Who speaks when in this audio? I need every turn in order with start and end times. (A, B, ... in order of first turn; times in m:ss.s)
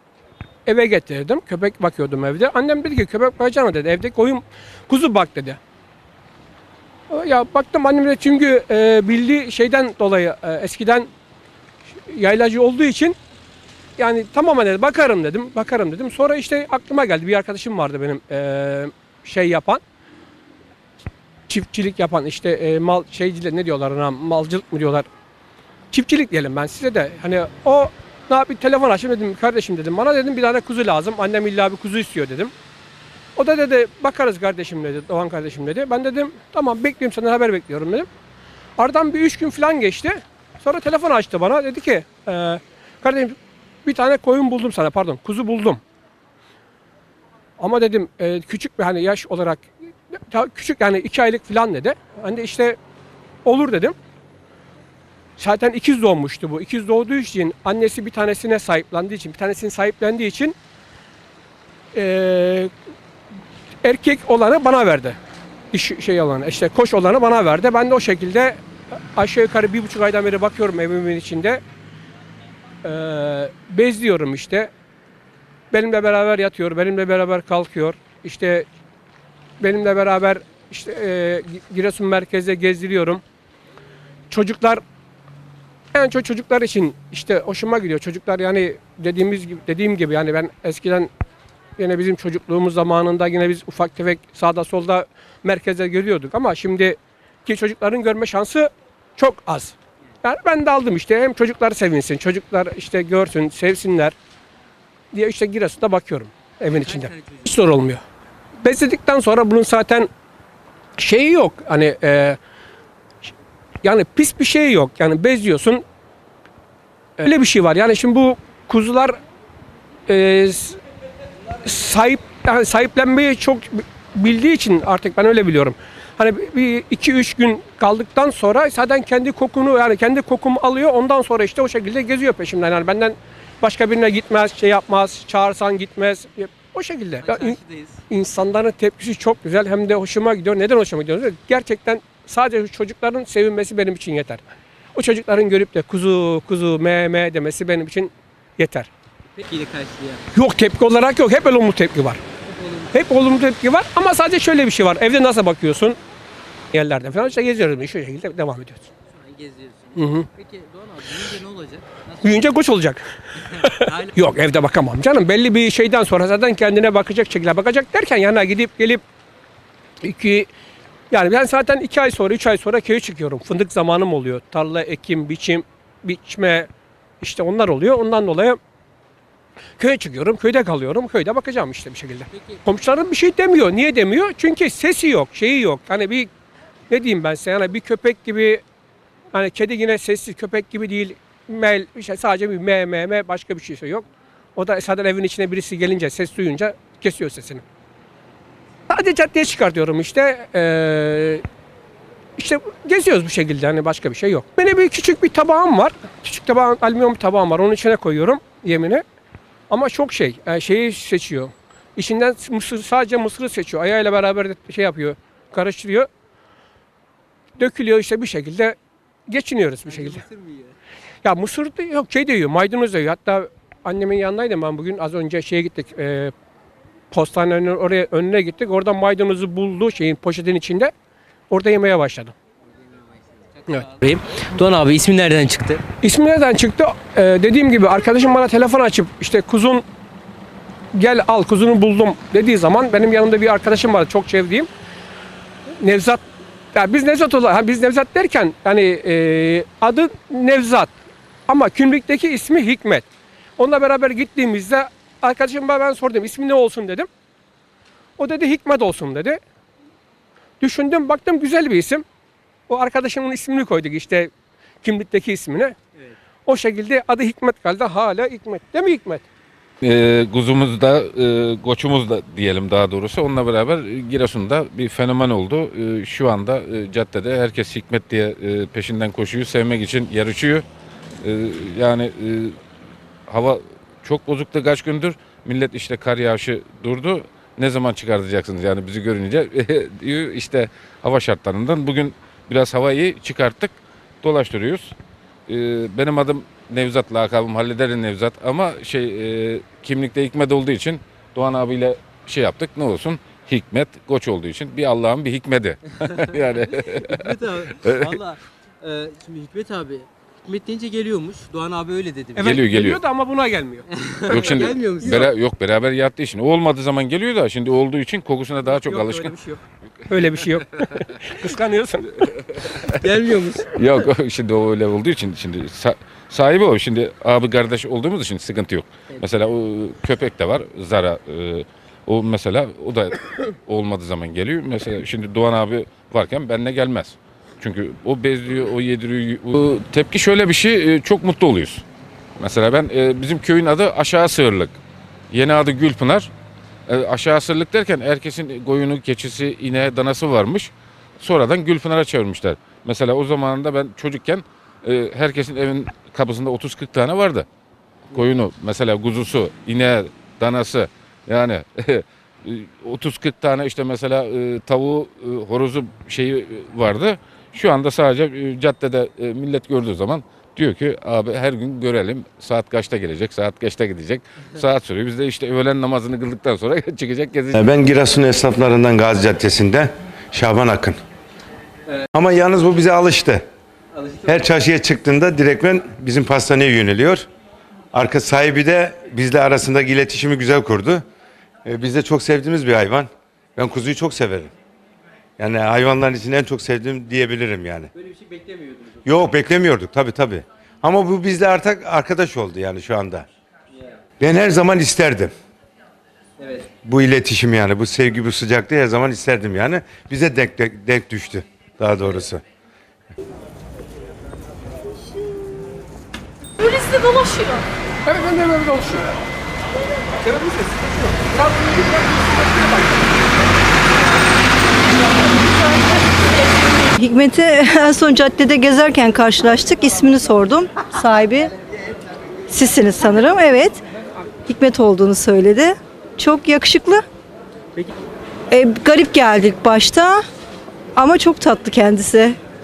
0:00.6-0:05.6 A
0:07.1-0:11.1 A
0:12.0-0:13.2 A
0:14.0-0:19.8 A
0:21.5-0:25.0 A
0:25.9-0:32.5 A
0:33.4-0:38.1 A
0:38.8-0:45.8 A
0:47.6-0:52.8 A
0:53.4-0:53.9 A
0:55.4-1:00.6 A
1:01.9-1:02.7 A
1:03.8-1:05.2 A
1:05.7-1:08.6 A
1:09.1-1:11.6 A
1:12.8-1:14.7 A
1:15.7-1:18.7 A
1:19.6-1:23.2 A
1:24.3-1:24.8 A
1:25.9-1:31.1 A
1:31.8-1:44.1 A
1:45.1-1:48.0 A
1:46.8-1:47.5 B
1:48.6-1:50.1 A
1:51.0-1:52.4 A
1:53.8-1:55.8 A
1:57.2-1:59.2 A
2:00.1-2:00.8 A
2:01.6-2:17.6 A
2:17.2-2:18.0 B
2:18.1-2:24.4 A
2:24.9-2:28.9 A
2:29.4-2:30.2 B
2:30.3-2:32.2 A
2:32.5-2:32.9 B
2:32.9-2:36.0 A
2:36.7-2:38.9 A
2:39.1-2:42.5 B
2:40.0-2:40.3 A
2:42.2-2:49.0 A
2:43.5-2:44.1 B
2:50.0-2:50.5 A
2:51.1-2:56.7 A
2:57.2-2:58.6 A
2:59.8-3:06.3 A
3:06.9-3:08.6 A
3:09.3-3:17.6 A
3:18.9-3:21.4 A
3:22.4-3:29.0 A
3:29.7-3:36.1 A
3:37.6-3:38.8 A
3:39.3-3:40.2 A
3:39.8-3:40.7 B
3:41.2-3:46.3 A
3:47.1-3:50.9 A
3:51.5-3:52.3 A
3:53.6-3:55.8 B
3:56.0-3:59.8 A
4:00.9-4:04.7 A
4:05.8-4:06.2 A
4:06.7-4:10.9 A
4:11.5-4:13.1 A
4:13.6-4:17.1 A
4:18.2-4:19.4 A
4:20.6-4:22.0 A
4:22.7-4:24.3 A
4:24.8-4:25.8 A
4:26.4-4:29.2 A
4:29.8-4:40.6 C
4:41.2-4:42.6 C
4:43.3-4:55.0 C
4:55.5-5:07.2 C
5:06.8-5:12.5 B
5:07.8-5:08.2 C
5:12.4-5:15.2 A
5:12.4-5:13.0 C
5:13.9-5:15.3 B
5:14.3-5:19.3 C
5:18.8-5:19.6 B
5:20.1-5:22.4 A
5:22.8-5:23.9 B
5:23.7-5:41.8 C
5:42.4-5:44.8 C
5:45.3-5:46.3 C
5:46.9-5:57.4 C
5:58.1-6:17.7 C
6:17.5-6:21.0 D
6:22.1-6:23.4 D
6:24.2-6:27.2 D
6:27.9-6:31.0 D
6:31.6-6:34.5 D
6:35.4-6:37.9 D
6:38.0-6:39.0 B
6:39.0-6:43.3 D
6:44.2-6:45.3 D
6:46.4-6:46.7 B
6:46.8-6:52.4 D
6:56.7-6:57.4 A
6:58.0-6:59.1 A
7:00.2-7:03.3 A
7:06.9-7:11.5 E
7:12.5-7:13.8 E
7:14.4-7:17.0 E
7:18.5-7:20.2 E
7:21.0-7:22.4 E